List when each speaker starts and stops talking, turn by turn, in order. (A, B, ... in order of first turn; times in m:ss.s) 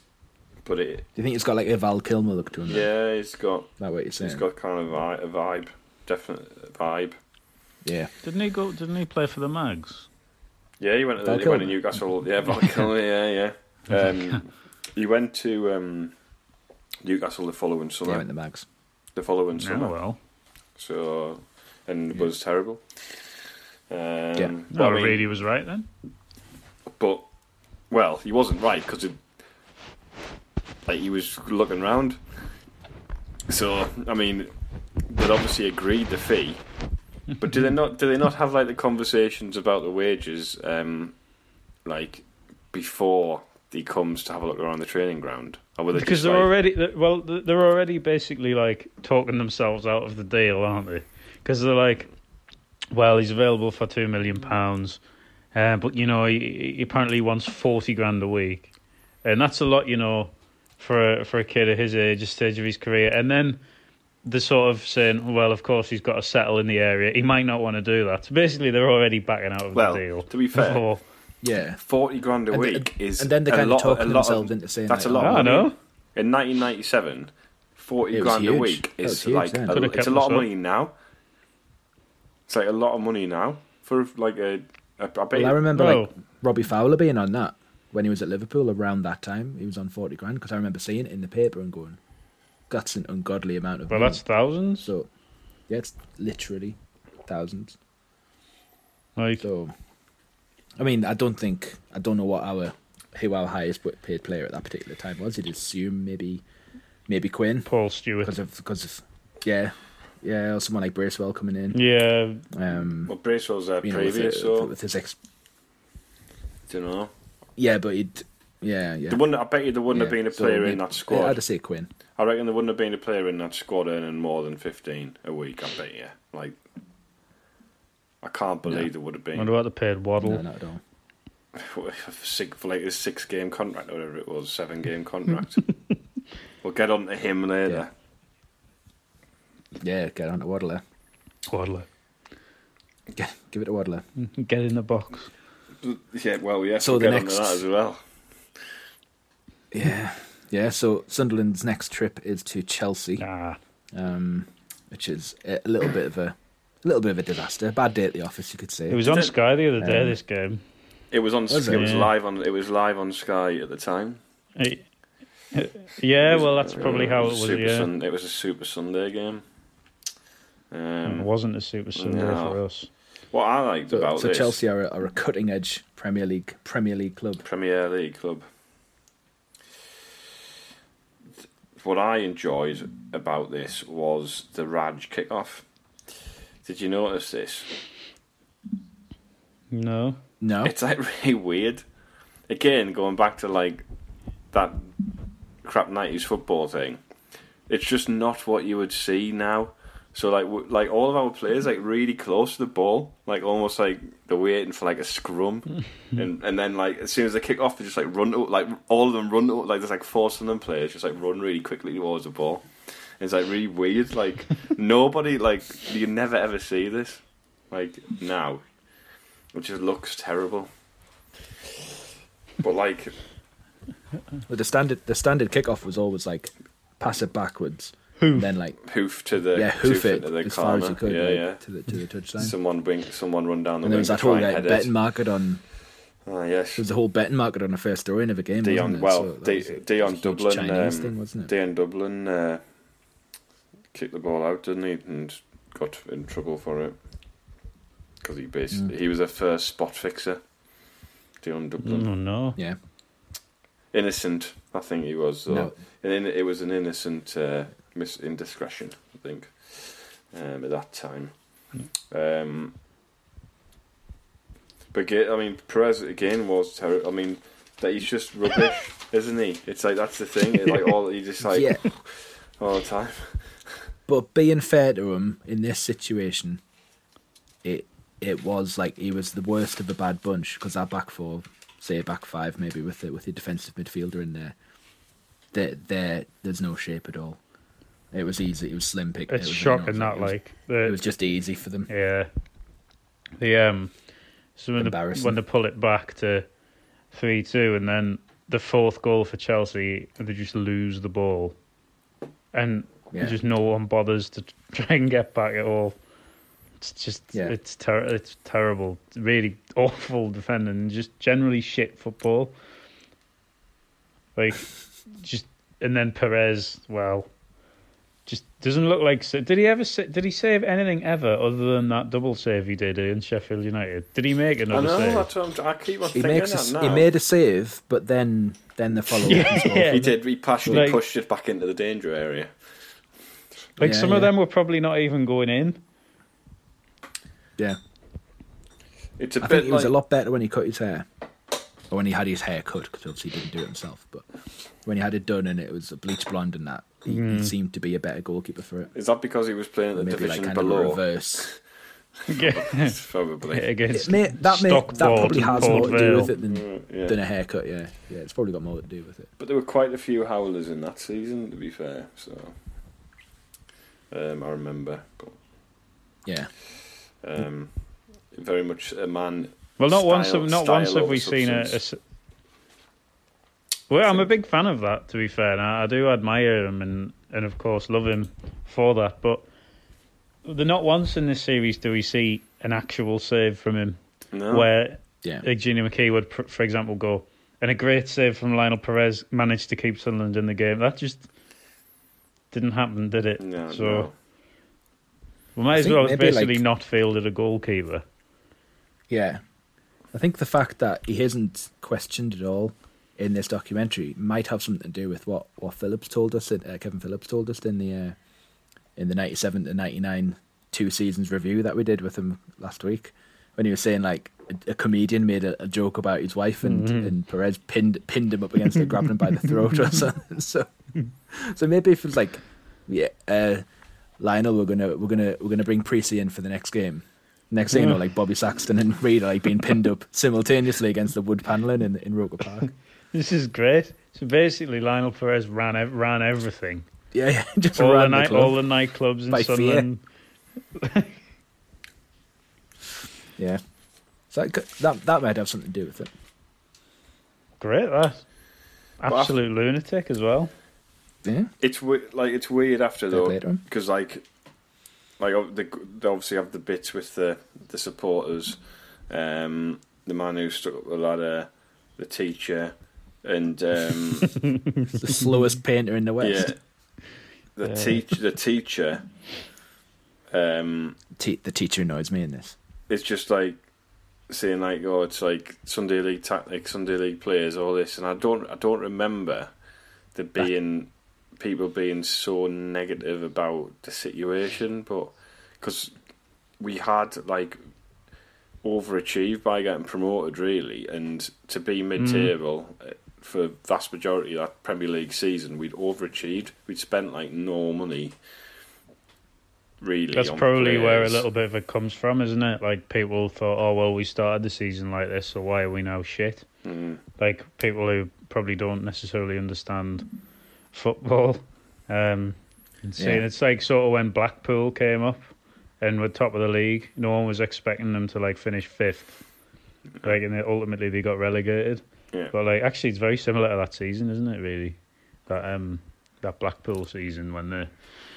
0:00.6-0:01.0 A
0:01.2-0:02.9 B
0:02.6-0:07.1 A
0:03.8-0:04.4 B
0:07.8-0:08.1 B
0:08.2-0:10.1 C
0:10.8-0:16.1 A
0:11.2-0:11.8 B
0:17.0-0:18.2 A
0:18.0-0:18.6 B
0:19.2-0:19.9 A
0:19.6-0:20.2 C
0:20.8-0:23.2 A
0:23.9-0:25.3 A
0:24.7-0:25.9 C
0:27.0-0:27.2 A
0:27.9-0:29.2 A
0:30.8-0:32.2 A
0:33.5-0:34.5 A
0:35.1-0:36.6 A
0:37.4-0:41.1 A
0:41.8-0:46.5 A
0:45.9-0:52.1 C
0:52.9-0:55.0 C
0:55.5-0:58.7 C
0:59.2-1:03.6 C
1:04.2-1:11.0 C
1:09.7-1:10.8 A
1:11.4-1:11.8 B
1:11.8-1:20.9 A
1:12.5-1:15.5 B
1:15.2-1:15.7 C
1:18.1-1:19.8 B
1:19.7-1:20.5 C
1:22.5-1:25.6 A
1:25.3-1:32.0 B
1:25.7-1:26.1 C
1:32.7-1:34.2 B
1:33.9-1:34.9 C
1:34.8-1:35.1 B
1:35.7-1:37.8 B
1:39.2-1:39.4 C
1:39.4-1:39.7 B
1:40.8-1:46.4 B
1:47.1-1:47.7 B
1:47.6-1:48.3 C
1:48.2-1:51.8 B
1:51.7-1:52.4 C
1:52.5-1:53.1 B
1:53.0-1:54.7 A
1:53.8-1:55.2 B
1:56.7-1:57.1 A
1:57.6-1:59.2 B
1:59.1-2:01.4 A
1:59.9-2:01.9 B
2:02.2-2:06.6 A
2:08.2-2:09.5 A
2:09.4-2:10.4 C
2:10.2-2:10.8 B
2:11.5-2:15.7 A
2:16.6-2:17.9 A
2:19.8-2:20.8 B
2:21.5-2:21.9 C
2:23.1-2:24.0 B
2:24.2-2:25.3 C
2:25.8-2:28.0 A
2:26.8-2:27.6 B
2:29.7-2:33.2 B
2:33.2-2:33.6 C
2:33.9-2:39.0 B
2:38.9-2:40.6 C
2:39.0-2:39.3 A
2:39.8-2:40.2 B
2:41.1-2:44.2 A
2:41.5-2:41.9 B
2:41.7-2:42.1 C
2:44.6-2:44.8 C
2:45.5-2:47.9 C
2:46.2-2:49.4 A
2:50.7-2:51.3 A
2:51.0-2:52.9 C
2:52.0-2:52.6 A
2:53.3-2:54.6 A
2:53.9-2:57.4 B
2:57.4-2:58.4 A
3:01.8-3:05.6 A
3:06.6-3:07.7 A
3:09.7-3:10.2 C
3:10.4-3:10.7 B
3:10.6-3:11.8 A
3:12.5-3:13.8 A
3:14.5-3:14.9 A
3:15.6-3:17.0 A
3:17.7-3:32.7 A
3:33.2-3:38.6 A
3:39.5-3:40.7 A
3:42.6-3:43.1 A
3:44.5-3:48.8 B
3:48.2-3:48.4 C
3:48.8-3:51.6 A
3:49.5-3:52.5 B
3:52.4-3:55.0 A
3:53.8-3:55.6 B
3:56.2-3:56.8 A
3:56.8-4:01.5 B
3:58.6-4:02.6 A
4:03.9-4:07.0 A
4:08.2-4:10.4 A
4:11.4-4:12.1 A
4:11.8-4:12.6 C
4:13.9-4:21.3 A
4:15.5-4:15.7 B
4:22.1-4:22.7 A
4:24.9-4:33.4 A
4:31.4-4:31.8 B
4:34.1-4:36.6 B
4:37.6-4:44.5 B
4:45.5-4:47.4 B
4:48.1-4:51.9 B
4:49.3-4:51.0 C
4:51.9-4:52.3 C
4:53.4-4:53.9 C
4:54.6-4:56.4 C
4:54.8-4:55.4 B
4:57.1-5:01.5 C
5:02.5-5:06.0 C
5:03.1-5:03.4 B
5:06.8-5:12.5 C
5:14.4-5:17.3 C
5:18.3-5:25.3 C
5:24.7-5:27.1 A
5:26.1-5:30.9 B
5:29.1-5:31.0 C
5:29.9-5:32.5 A
5:33.8-5:35.8 C
5:33.8-5:34.3 B
5:39.2-5:39.9 A
5:39.4-5:41.0 B
5:41.9-5:44.2 B
5:44.8-5:48.9 B
5:47.1-5:47.5 C
5:48.9-5:51.6 A
5:49.9-5:51.5 B
5:52.3-5:53.0 C
5:52.3-5:53.7 A
5:53.5-5:56.3 C
5:53.9-5:59.3 B
5:55.3-5:55.9 A
5:56.4-5:57.2 A
5:59.4-6:02.5 A
6:04.1-6:05.4 A
6:06.2-6:06.5 B
6:07.2-6:07.7 A
6:08.3-6:11.8 A
6:09.8-6:12.0 C
6:13.9-6:19.4 C
6:20.4-6:24.0 C
6:24.3-6:24.7 A
6:24.5-6:31.3 C
6:32.5-6:34.1 C
6:33.4-6:34.1 A
6:35.6-6:38.0 C
6:35.7-6:36.6 B
6:39.1-6:39.4 B
6:40.1-6:48.2 B
6:49.0-7:00.7 B
6:56.6-6:57.1 C
7:01.3-7:03.6 B
7:04.2-7:12.7 B
7:07.7-7:08.0 C
7:13.1-7:16.8 C
7:17.1-7:18.6 B
7:17.8-7:20.0 C
7:19.3-7:19.9 B
7:20.7-7:21.2 C
7:24.3-7:26.1 B
7:27.6-7:28.2 C
7:29.0-7:30.5 C
7:29.0-7:29.3 A
7:31.2-7:31.5 B
7:31.6-7:34.2 A
7:33.1-7:33.6 B
7:35.2-7:38.6 A
7:39.1-7:44.4 A
7:44.9-7:46.5 B
7:46.2-7:46.6 A
7:47.6-7:49.0 A
7:50.3-7:51.0 A
7:51.2-7:52.6 B
7:52.9-7:53.6 A
7:54.3-7:59.5 A
8:00.1-8:05.9 A
8:06.6-8:07.6 A
8:08.6-8:18.2 A
8:12.0-8:12.3 C
8:19.8-8:21.2 A
8:20.1-8:26.4 C
8:26.6-8:27.0 A
8:27.2-8:30.1 C
8:30.7-8:35.2 C
8:33.0-8:33.2 B
8:35.8-8:39.2 C
8:40.0-8:47.7 C